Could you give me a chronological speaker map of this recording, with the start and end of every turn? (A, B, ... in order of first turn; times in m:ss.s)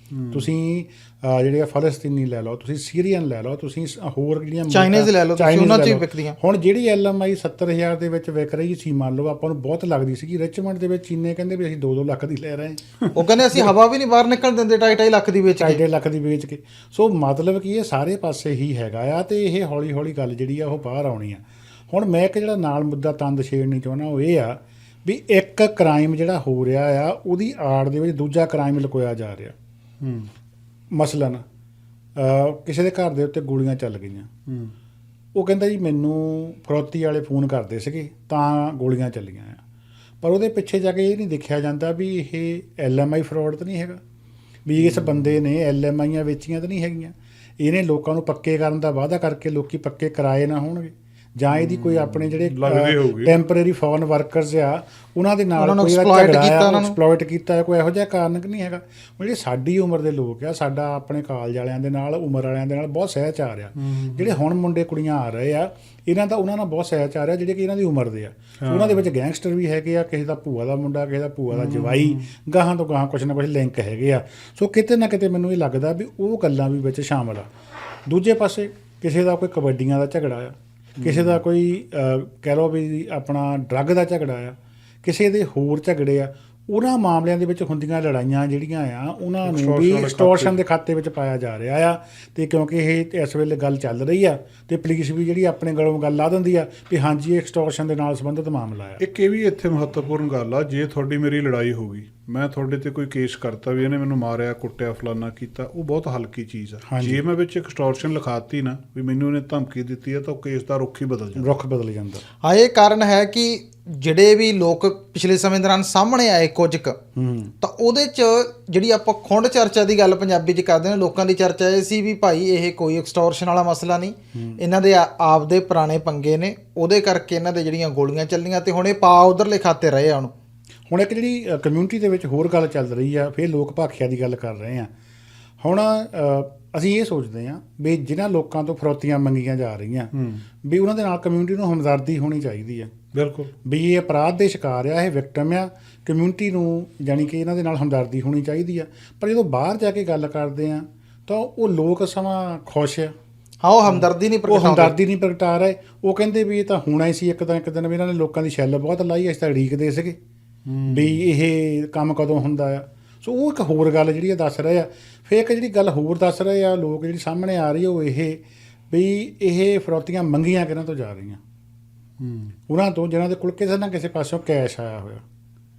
0:00.1-0:00.5 A
0:00.3-0:12.8 B
0:04.7-0:06.4 C
0:13.1-0:15.8 C
0:15.5-0:29.6 B
0:30.0-0:30.3 A
0:30.9-0:31.4 B
0:32.2-0:34.3 B
0:34.5-0:34.7 A
0:35.3-0:39.6 B
0:40.2-0:44.0 B
0:44.6-1:17.5 B
0:44.8-0:45.4 A
0:51.5-0:53.4 A
0:55.6-0:57.0 C
1:03.8-1:04.4 A
1:08.6-1:09.1 A
1:11.5-1:12.3 A
1:18.1-1:39.0 B
1:21.0-1:21.4 A
1:29.4-1:30.6 A
1:39.0-1:51.5 A
1:46.9-1:47.2 B
1:51.4-1:52.2 B
1:52.4-1:57.0 C
1:57.2-1:57.5 B
1:57.6-2:10.3 C
2:04.4-2:04.6 B
2:10.9-2:14.9 B
2:15.6-2:22.9 B
2:20.1-2:20.4 A
2:23.1-2:23.5 A
2:23.6-2:33.1 B
2:33.6-2:35.0 C
2:34.5-2:40.2 B
2:40.7-2:41.2 A
2:40.9-2:51.4 B
2:52.2-2:52.5 A
2:52.7-2:55.2 B